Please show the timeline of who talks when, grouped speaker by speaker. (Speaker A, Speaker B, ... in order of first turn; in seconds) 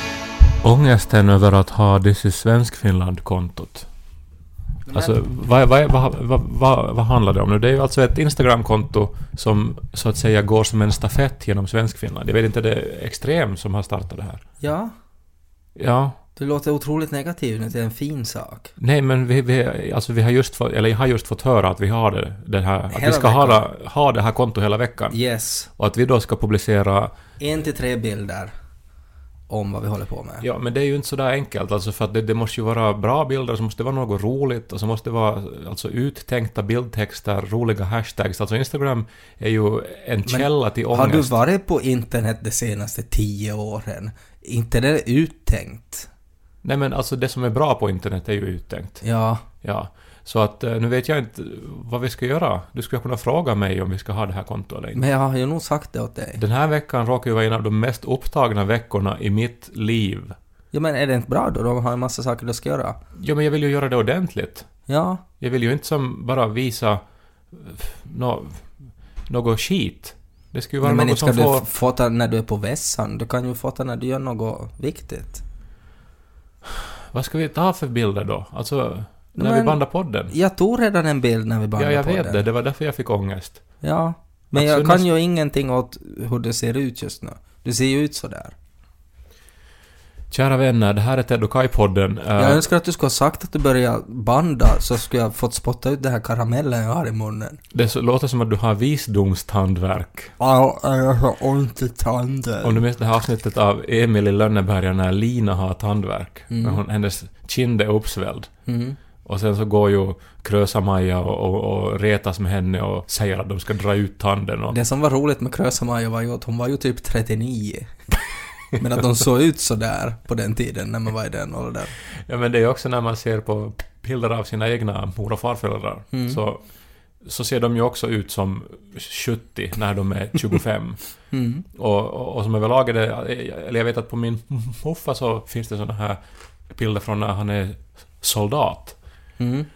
Speaker A: 0.6-3.9, 4.9-14.4, 15.8-16.2, 18.8-25.2, 25.8-27.1, 30.4-41.3, 46.6-49.0, 49.6-55.0, 56.4-60.4, 63.1-64.7, 65.4-68.7, 69.3-71.7, 76.7-80.3, 81.8-83.6, 84.5-85.0, 90.3-92.6, 97.7-100.3, 102.6-108.5, 109.2-114.7, 122.2-126.6, 127.2-131.0, 131.7-139.0
Speaker B: 4.9-5.2, 14.6-14.9, 16.4-18.7, 22.9-23.6, 25.1-25.7, 27.4-28.5, 29.5-30.4, 40.2-46.1, 49.0-49.4, 54.9-56.4, 60.7-63.0, 64.9-65.2, 70.8-75.4, 79.3-82.4, 83.8-88.5, 92.4-97.6, 100.4-102.8, 106.5-106.8, 108.7-109.0, 114.7-117.9, 118.7-121.9, 126.1-126.4, 131.3-131.6, 139.4-139.7